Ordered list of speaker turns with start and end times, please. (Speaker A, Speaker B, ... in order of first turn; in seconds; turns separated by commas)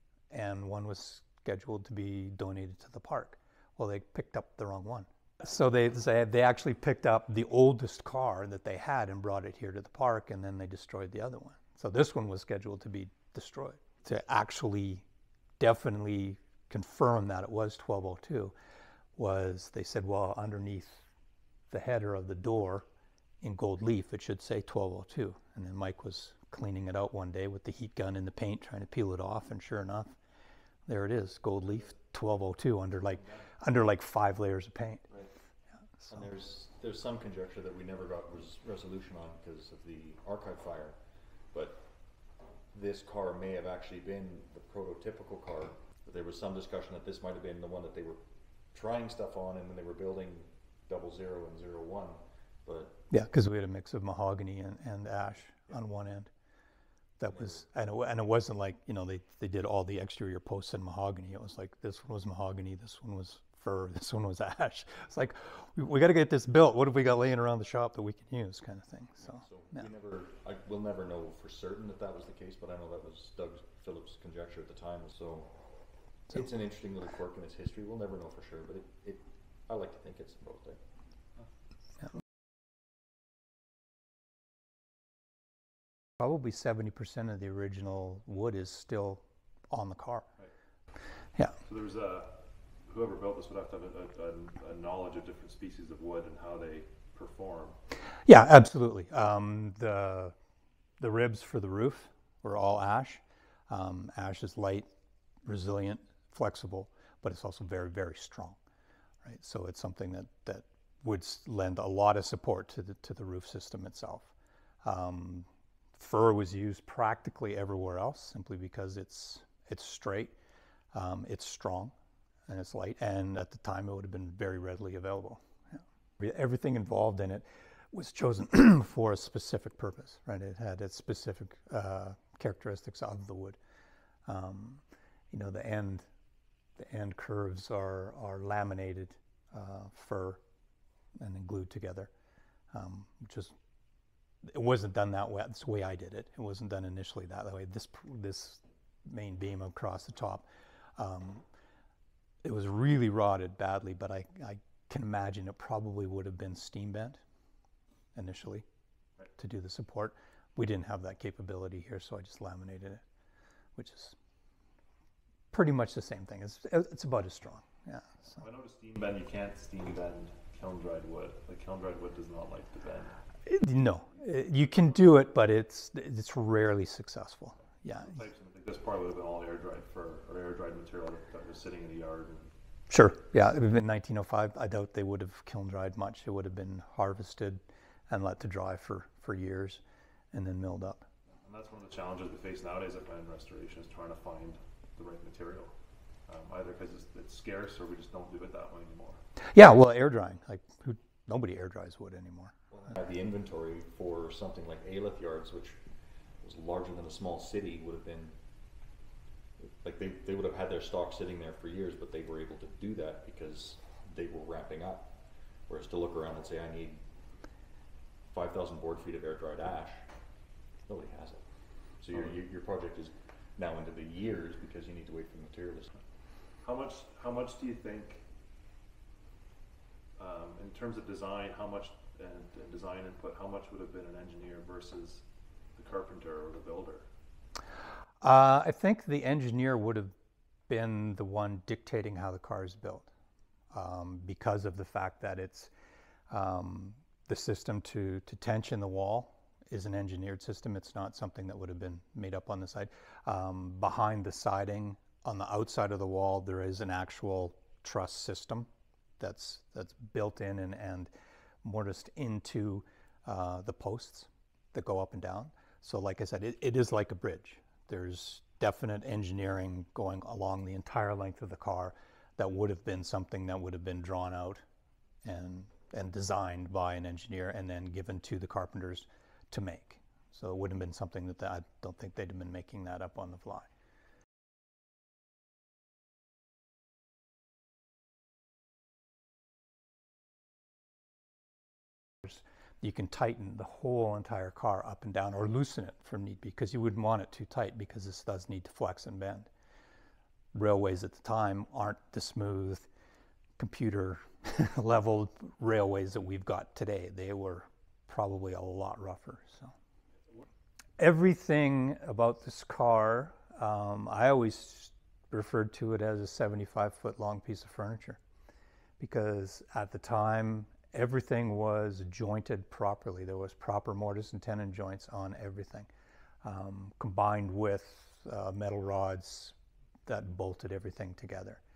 Speaker A: 0.3-15.1, Speaker A: 15.6-18.5, Speaker A: 19.2-21.1, Speaker A: 21.7-22.9, Speaker A: 23.4-30.1, Speaker A: 30.9-35.0, Speaker B: 36.1-41.0, Speaker B: 41.5-41.8, Speaker B: 42.7-48.2, Speaker B: 48.7-53.0, Speaker A: 53.1-56.3, Speaker A: 57.2-69.8, Speaker B: 57.3-57.6, Speaker B: 69.2-75.5, Speaker B: 76.3-80.8, Speaker A: 86.2-90.3, Speaker C: 91.6-97.8, Speaker A: 98.3-100.3, Speaker A: 101.0-104.9, Speaker A: 105.5-108.6, Speaker A: 109.2-114.3, Speaker A: 114.8-120.3, Speaker A: 120.9-121.9, Speaker A: 122.5-133.6, Speaker A: 134.3-136.1, Speaker A: 136.8-140.4, Speaker A: 141.2-142.1, Speaker A: 142.7-143.6, Speaker A: 144.4-150.5, Speaker A: 151.0-151.4, Speaker A: 152.4-157.2, Speaker A: 158.2-158.7, Speaker A: 159.4-163.0, Speaker A: 163.8-164.2, Speaker A: 165.5-168.4, Speaker C: 168.4-173.2, Speaker A: 173.5-178.2, Speaker C: 178.0-182.5, Speaker A: 182.9-189.8, Speaker A: 190.3-191.1, Speaker C: 191.4-195.7, Speaker C: 196.3-199.2, Speaker A: 199.4-202.6, Speaker B: 202.7-205.8, Speaker B: 206.4-208.3, Speaker B: 209.6-215.1, Speaker B: 215.7-217.0, Speaker B: 218.3-220.1, Speaker B: 220.9-225.9, Speaker C: 226.6-228.2, Speaker C: 230.2-235.2, Speaker C: 235.8-237.1, Speaker A: 238.2-240.1, Speaker A: 240.7-243.1, Speaker A: 243.7-245.7, Speaker A: 246.3-258.7, Speaker A: 259.2-261.1, Speaker A: 261.6-274.6, Speaker A: 275.2-283.7, Speaker A: 292.2-299.5, Speaker A: 300.5-302.9, Speaker A: 303.6-309.7, Speaker A: 311.0-318.2, Speaker A: 319.0-325.9, Speaker A: 326.4-329.6, Speaker A: 330.1-331.6